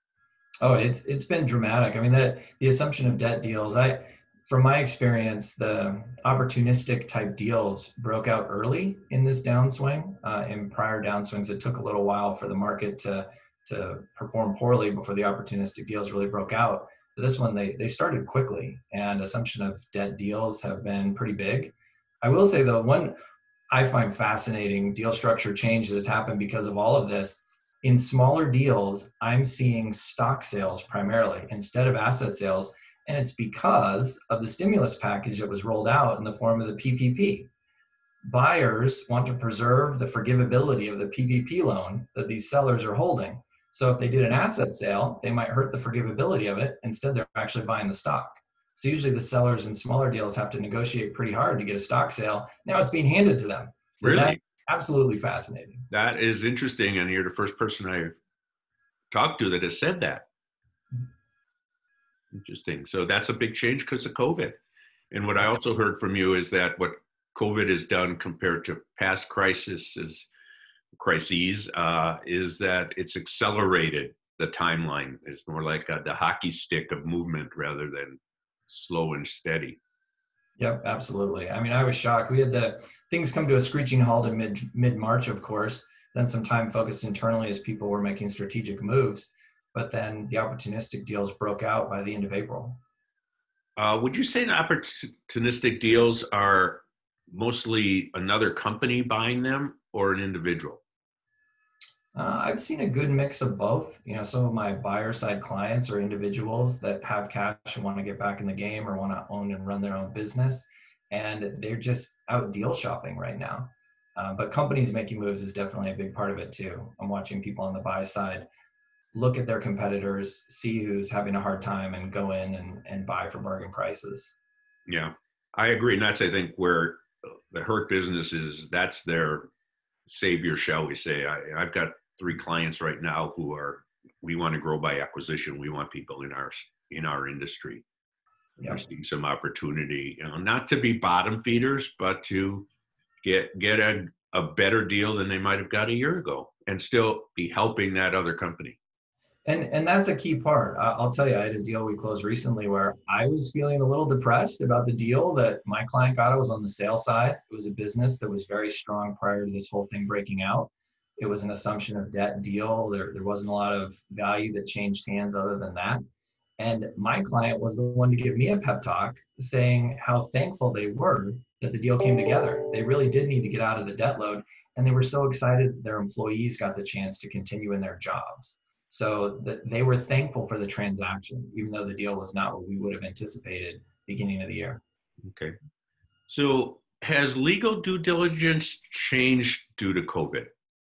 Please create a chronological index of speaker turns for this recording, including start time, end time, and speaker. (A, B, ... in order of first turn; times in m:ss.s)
0:00.6-0:23.2 A
0:23.7-0:37.5 A
0:38.3-0:55.8 A
0:54.0-0:54.4 B
0:55.9-0:58.2 B
0:59.1-1:00.3 B
1:02.3-1:04.6 B
1:05.1-1:10.3 B
1:10.9-1:19.8 B
1:20.6-1:32.8 A
1:33.8-1:40.8 B
1:42.1-1:58.5 A
1:59.1-2:04.3 A
2:04.9-2:09.5 B
2:10.1-2:17.8 B
2:18.7-2:22.7 B
2:23.2-2:28.8 B
2:29.4-2:46.0 A
2:46.6-3:04.8 A
3:05.2-3:05.5 B
3:06.3-3:10.5 B